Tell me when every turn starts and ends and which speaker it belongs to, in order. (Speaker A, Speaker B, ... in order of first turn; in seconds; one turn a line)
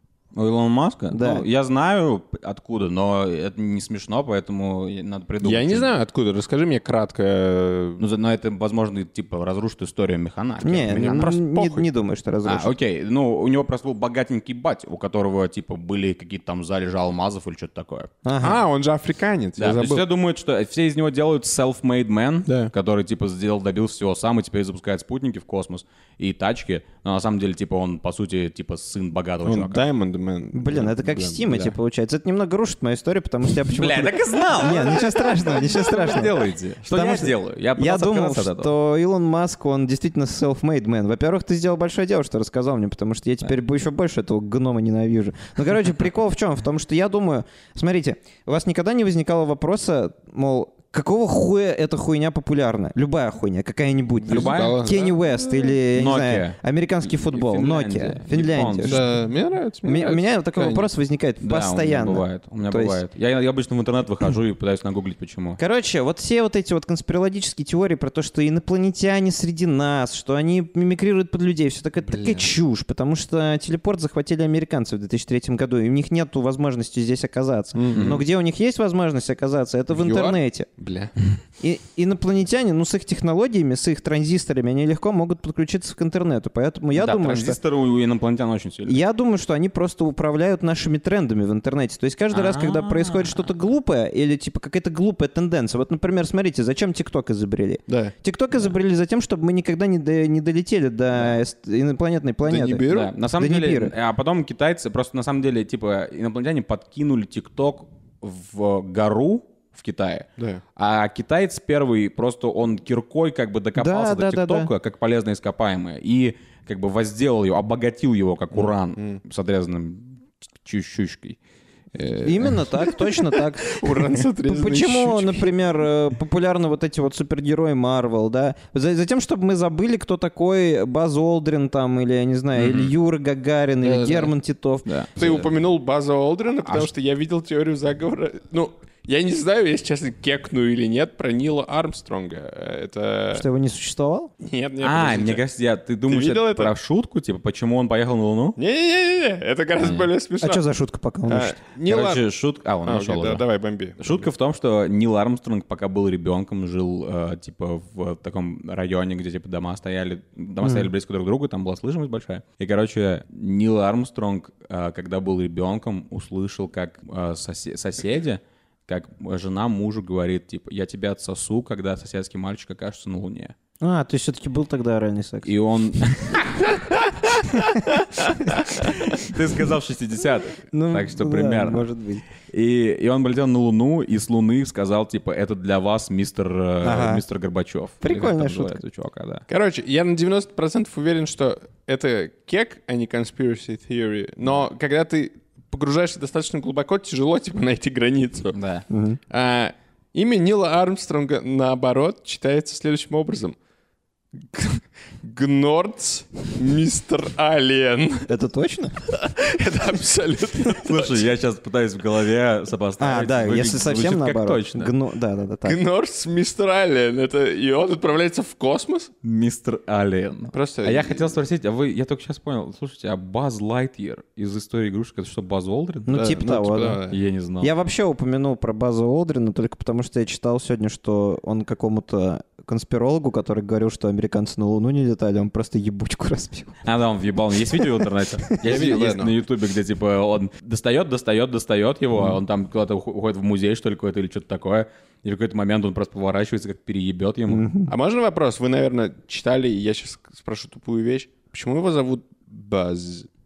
Speaker A: 0.3-5.9
Speaker B: 1.1-1.5
Speaker C: 5.4-8.0
Speaker A: 8.0-11.4
Speaker B: 10.6-12.7
Speaker C: 11.1-11.9
Speaker A: 12.4-18.1
Speaker B: 18.2-18.6
Speaker C: 18.4-20.1
Speaker A: 19.6-29.8
Speaker C: 22.5-22.7
Speaker C: 29.4-31.8
Speaker B: 30.5-59.1
Speaker A: 33.7-38.7
Speaker C: 34.7-36.3
Speaker A: 54.2-54.9
Speaker C: 54.3-55.7
Speaker A: 55.9-59.1
Speaker C: 58.9-60.9
Speaker B: 59.8-63.0
Speaker A: 61.4-65.6
Speaker B: 65.6-80.7
Speaker C: 72.1-72.5
Speaker C: 77.8-78.2
Speaker A: 77.9-78.2
Speaker C: 79.9-81.1
Speaker B: 81.6-87.6
Speaker A: 87.0-89.0
Speaker B: 88.9-103.9
Speaker A: 92.3-93.5
Speaker C: 97.9-98.1
Speaker C: 102.4-103.1
Speaker A: 102.9-121.4
Speaker B: 113.8-114.7
Speaker C: 118.5-119.2
Speaker C: 122.0-122.9
Speaker B: 122.2-134.9
Speaker C: 123.6-125.5
Speaker A: 132.6-132.9
Speaker C: 133.8-134.3
Speaker A: 134.9-135.5
Speaker C: 135.2-143.4
Speaker B: 143.3-144.3
Speaker C: 144.4-145.4
Speaker A: 144.8-148.6
Speaker C: 146.1-146.7
Speaker C: 148.6-150.6
Speaker A: 149.8-150.1
Speaker B: 150.4-151.6
Speaker C: 151.3-152.2
Speaker A: 151.9-153.4
Speaker C: 152.8-154.3
Speaker A: 154.0-173.5
Speaker B: 160.6-160.9
Speaker B: 173.8-175.5
Speaker A: 175.4-177.7
Speaker B: 177.6-177.8
Speaker A: 178.5-181.9
Speaker B: 180.7-182.2
Speaker A: 182.5-189.4
Speaker B: 186.8-187.2
Speaker B: 188.0-188.8
Speaker C: 189.5-198.6
Speaker A: 198.5-198.9
Speaker B: 198.9-199.2
Speaker C: 199.3-203.6
Speaker C: 204.4-208.3
Speaker B: 208.3-209.0
Speaker C: 209.1-211.3
Speaker A: 210.8-214.9
Speaker B: 213.0-215.8
Speaker C: 215.6-219.1
Speaker A: 219.2-226.2
Speaker C: 220.5-221.4
Speaker B: 226.1-227.0
Speaker C: 226.1-227.2
Speaker A: 227.1-227.7
Speaker B: 227.6-236.8
Speaker A: 236.8-247.7
Speaker B: 238.0-238.5
Speaker C: 238.6-239.3
Speaker B: 247.5-247.9
Speaker C: 247.9-253.3